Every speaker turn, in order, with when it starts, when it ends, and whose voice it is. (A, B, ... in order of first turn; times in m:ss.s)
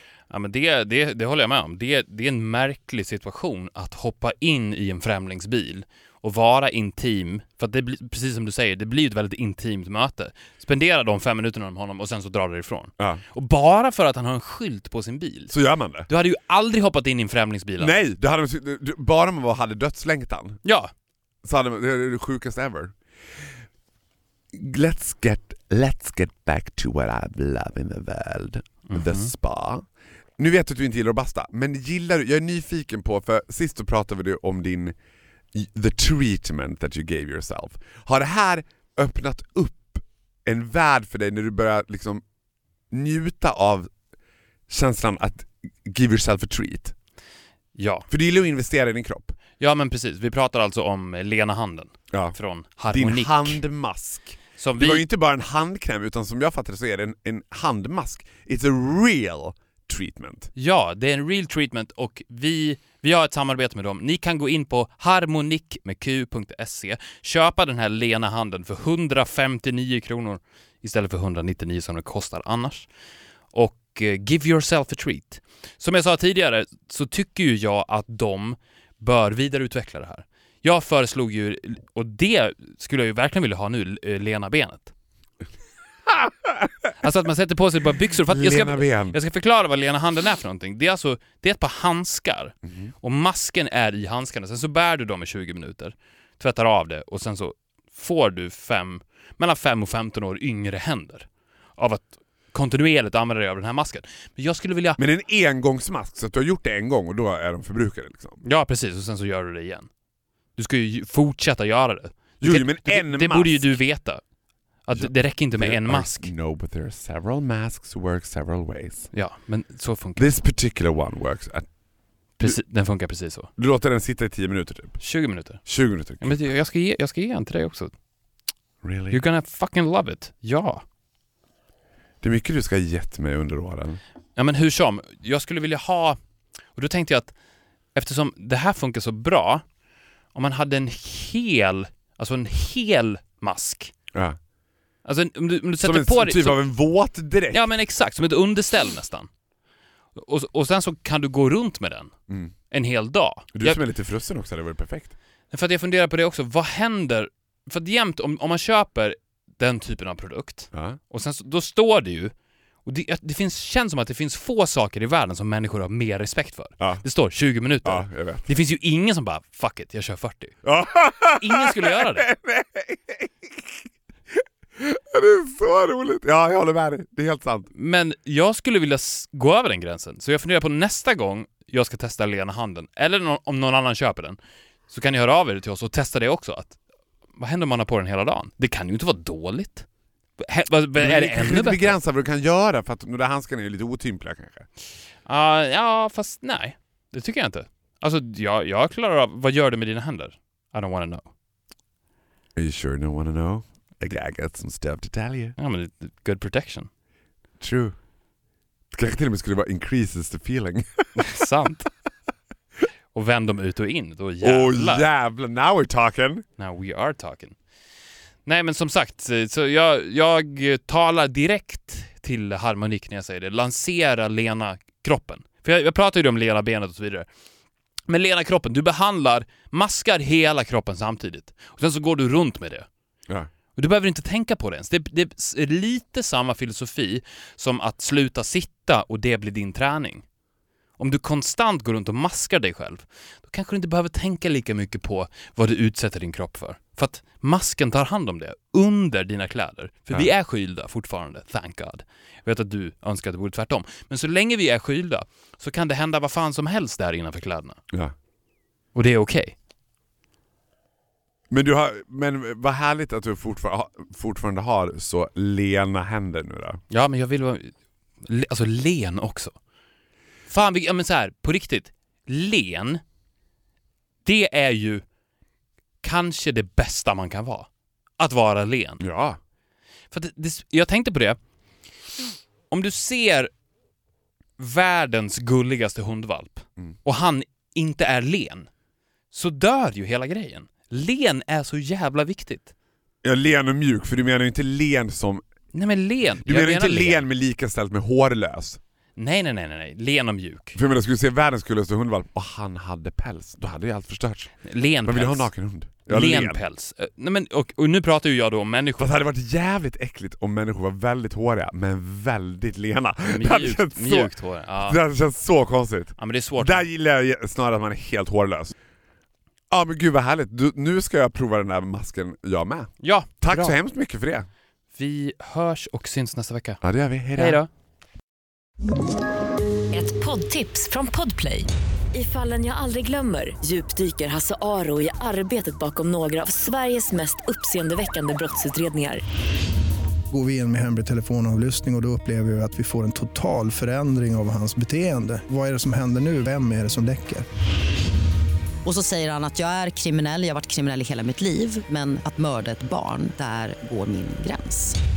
0:00.3-0:15.5 A
0:15.5-0:16.1 B
0:16.1-0:17.9 A
0:17.8-0:20.6 B
0:20.6-0:20.9 A
0:21.4-0:23.0 B
0:24.5-0:29.8 B
0:28.9-0:29.3 A
0:30.4-0:34.9 B
0:35.5-0:42.2 B
0:42.9-0:43.9 B
0:44.7-0:46.9 B
0:47.8-0:48.0 A
0:48.1-0:49.4 B
0:49.6-0:53.6 A
0:52.1-0:52.4 B
0:52.9-1:00.5 B
0:54.6-0:55.0 A
1:00.5-1:12.9 A
1:13.5-1:24.9 A
1:26.1-1:26.7 B
1:27.0-1:45.0 A
1:28.3-1:29.2 B
1:32.6-1:32.9 B
1:45.0-1:48.4 B
1:48.4-1:49.9 A
1:50.6-1:54.2 A
1:52.4-1:53.7 B
1:54.8-1:56.3 A
1:54.9-1:59.1 B
1:59.1-2:00.2 A
2:00.2-2:01.7 B
2:02.4-2:03.5 A
2:03.6-2:05.0 B
2:05.0-2:05.7 A
2:05.6-2:06.4 B
2:06.2-2:07.9 A
2:08.8-2:09.2 B
2:09.1-2:10.8 A
2:12.2-2:14.0 B
2:14.4-2:16.2 A
2:16.8-2:17.3 A
2:17.9-2:19.6 A
2:20.3-2:23.9 A
2:24.1-2:24.4 B
2:25.0-2:26.7 A
2:25.8-2:27.7 B
2:27.5-2:29.3 A
2:30.2-2:32.1 A
2:32.7-2:33.8 A
2:33.5-2:35.1 B
2:35.5-2:42.3 A
2:40.7-2:41.0 B
2:42.8-2:50.6 A
2:47.8-2:48.5 B
2:50.6-2:53.8 B
2:51.4-2:52.2 A
2:54.3-2:57.7 B
2:57.7-3:04.4 A
3:04.9-3:06.8 A
3:07.4-3:09.8 A
3:10.4-3:12.0 A
3:11.0-3:14.6 B
3:15.2-3:21.3 A
3:22.6-3:25.5 B
3:25.6-3:26.9 A
3:27.6-3:28.0 B
3:28.9-3:31.2 B
3:31.2-3:31.9 A
3:33.1-3:35.1 A
3:34.4-3:36.4 B
3:36.6-3:37.5 A
3:38.4-3:47.3 A
3:48.1-3:52.8 A
3:53.8-4:00.2 A
4:01.0-4:17.8 A
4:18.9-4:19.5 A
4:21.5-4:26.8 B
4:26.9-4:29.5 A
4:30.5-4:33.0 A
4:34.2-4:35.0 A
4:36.0-4:37.7 A
4:38.2-4:39.0 A
4:39.0-4:39.4 B
4:40.1-4:41.4 A
4:42.7-4:43.5 A
4:44.6-4:48.7 A
4:49.3-4:52.7 A
4:53.2-4:55.4 B
4:55.7-4:57.2 A
4:56.4-4:58.8 B
4:59.2-5:00.8 A
5:00.7-5:04.5 B
5:04.6-5:05.5 A
5:05.0-5:06.6 B
5:06.1-5:09.1 A
5:09.0-5:18.7 B
5:13.3-5:15.0 A
5:16.2-5:16.8 A
5:19.7-5:24.5 B
5:23.0-5:23.8 A
5:24.9-5:26.8 A
5:26.8-5:27.6 B
5:27.3-5:27.7 A
5:29.9-5:39.2 C
5:40.3-5:47.4 D
5:48.8-5:54.9 E